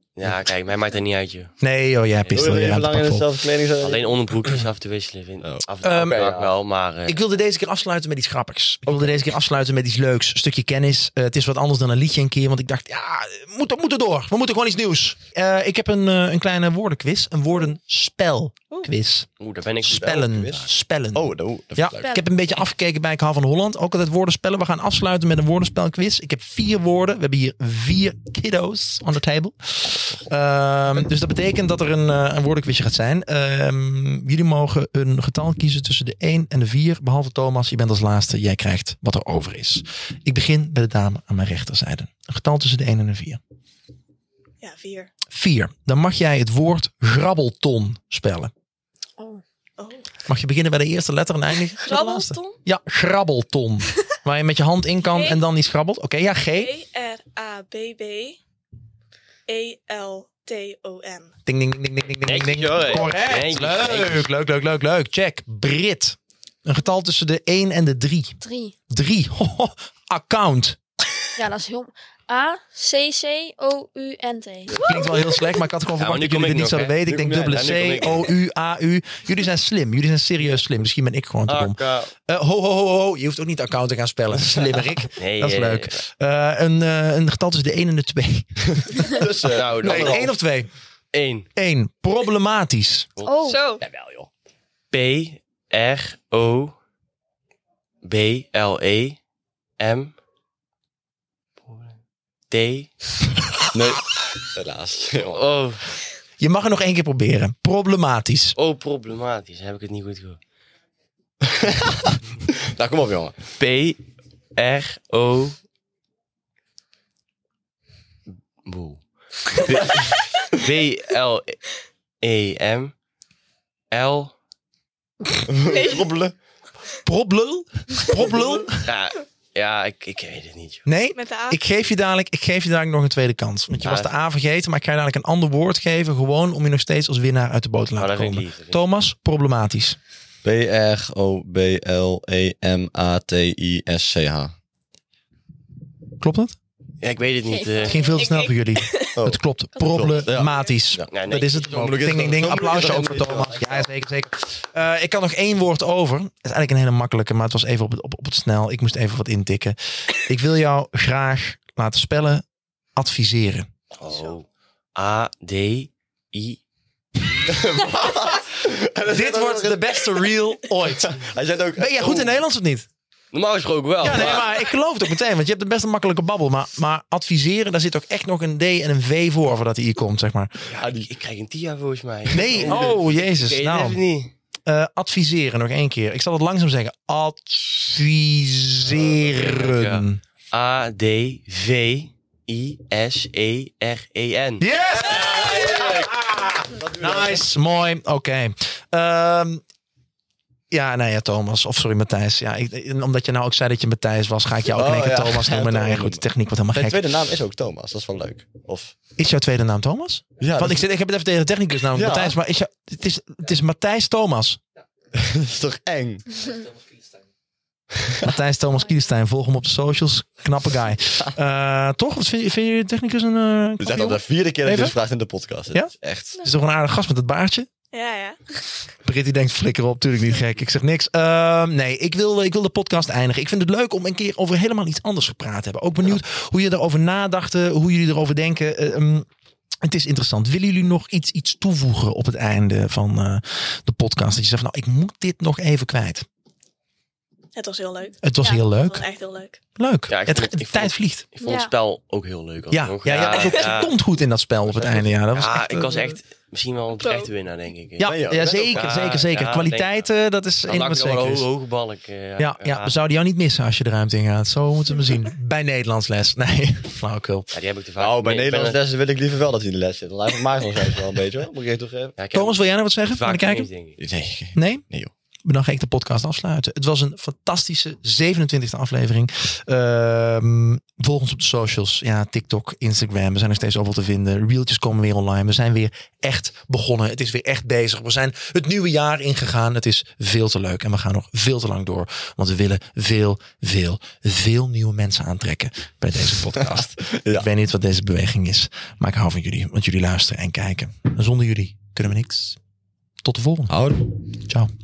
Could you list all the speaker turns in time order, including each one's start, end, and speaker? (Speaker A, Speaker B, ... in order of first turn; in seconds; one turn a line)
Speaker A: 0.2-1.5
Speaker B: 1.6-3.3
Speaker C: 2.3-4.1
Speaker A: 3.8-7.2
Speaker C: 5.4-6.5
Speaker B: 5.8-6.2
Speaker B: 7.1-19.3
Speaker C: 8.9-9.1
Speaker A: 19.4-20.2
Speaker B: 19.8-43.4
Speaker C: 19.9-22.2
Speaker D: 22.0-22.2
Speaker E: 44.6-45.1
Speaker B: 45.3-48.5
Speaker D: 49.2-49.4
Speaker E: 49.8-50.0
Speaker B: 50.3-56.7
Speaker E: 51.8-52.6
Speaker E: 55.0-55.4
Speaker E: 56.5-58.4
Speaker E: 59.5-61.3
Speaker B: 61.5-68.4
Speaker A: 62.2-64.3
Speaker D: 68.4-68.7
Speaker B: 68.9-70.8
Speaker D: 71.3-74.8
Speaker B: 74.8-89.2
Speaker A: 76.0-78.3
Speaker A: 81.5-82.1
Speaker A: 85.1-86.0
Speaker C: 89.1-90.2
Speaker A: 89.5-90.3
Speaker B: 89.8-90.7
Speaker A: 91.1-91.5
Speaker B: 91.5-93.1
Speaker A: 93.2-93.5
Speaker D: 93.2-93.6
Speaker E: 93.4-93.8
Speaker C: 93.8-94.3
Speaker A: 94.9-96.7
Speaker A: 98.0-99.2
Speaker A: 99.8-100.1
Speaker A: 101.7-101.9
Speaker A: 102.5-102.9
Speaker C: 103.7-105.4
Speaker A: 105.1-105.9
Speaker B: 106.4-108.5
Speaker A: 108.6-110.4
Speaker C: 111.4-113.3
Speaker A: 113.6-114.0
Speaker A: 114.5-115.5
Speaker A: 118.6-121.6
Speaker A: 122.2-122.9
Speaker A: 123.9-124.3
Speaker C: 125.5-126.3
Speaker E: 125.7-126.1
Speaker B: 127.0-128.9
Speaker A: 128.8-130.8
Speaker B: 130.8-140.0
Speaker E: 131.1-131.6
Speaker A: 133.8-134.1
Speaker A: 137.9-138.8
Speaker C: 140.4-144.5
Speaker B: 146.2-146.6
Speaker A: 147.0-148.1
Speaker D: 147.5-148.2
Speaker B: 147.9-162.4
Speaker E: 148.0-149.2
Speaker C: 149.2-153.8
Speaker A: 151.1-151.9
Speaker B: 162.9-163.7
Speaker A: 164.0-166.6
Speaker E: 164.1-164.4
Speaker C: 167.5-170.0
Speaker B: 169.1-171.2
Speaker C: 171.0-172.4
Speaker B: 171.8-172.9
Speaker A: 173.3-174.6
Speaker B: 174.0-180.7
Speaker A: 180.7-184.3
Speaker C: 180.8-181.1
Speaker B: 182.3-184.0
Speaker B: 184.7-190.2
Speaker A: 188.8-194.7
Speaker B: 194.6-199.6
Speaker C: 195.7-197.5
Speaker B: 200.7-207.1
Speaker C: 204.7-208.9
Speaker B: 209.2-214.6
Speaker C: 210.4-210.8
Speaker C: 211.9-212.3
Speaker C: 215.1-216.4
Speaker C: 218.0-218.3
Speaker B: 218.2-225.0
Speaker C: 223.8-226.3
Speaker B: 225.7-227.7
Speaker E: 227.9-228.4
Speaker B: 229.0-239.3
Speaker B: 239.8-246.2
Speaker E: 247.5-249.6
Speaker B: 248.2-249.0
Speaker B: 249.8-251.2
Speaker A: 250.1-253.9
Speaker D: 251.4-251.7
Speaker B: 252.7-256.2
Speaker E: 253.3-253.7
Speaker A: 255.3-259.9
Speaker E: 257.0-257.3
Speaker B: 258.0-261.4
Speaker C: 258.0-259.2
Speaker A: 260.6-262.9
Speaker B: 262.4-267.5
Speaker A: 267.5-268.8
Speaker C: 268.0-272.2
Speaker A: 272.2-274.0
Speaker B: 272.3-273.7
Speaker C: 274.0-275.1
Speaker B: 274.5-274.8
Speaker B: 275.4-302.6
Speaker C: 296.6-297.5
Speaker B: 303.2-303.8
Speaker C: 303.7-304.0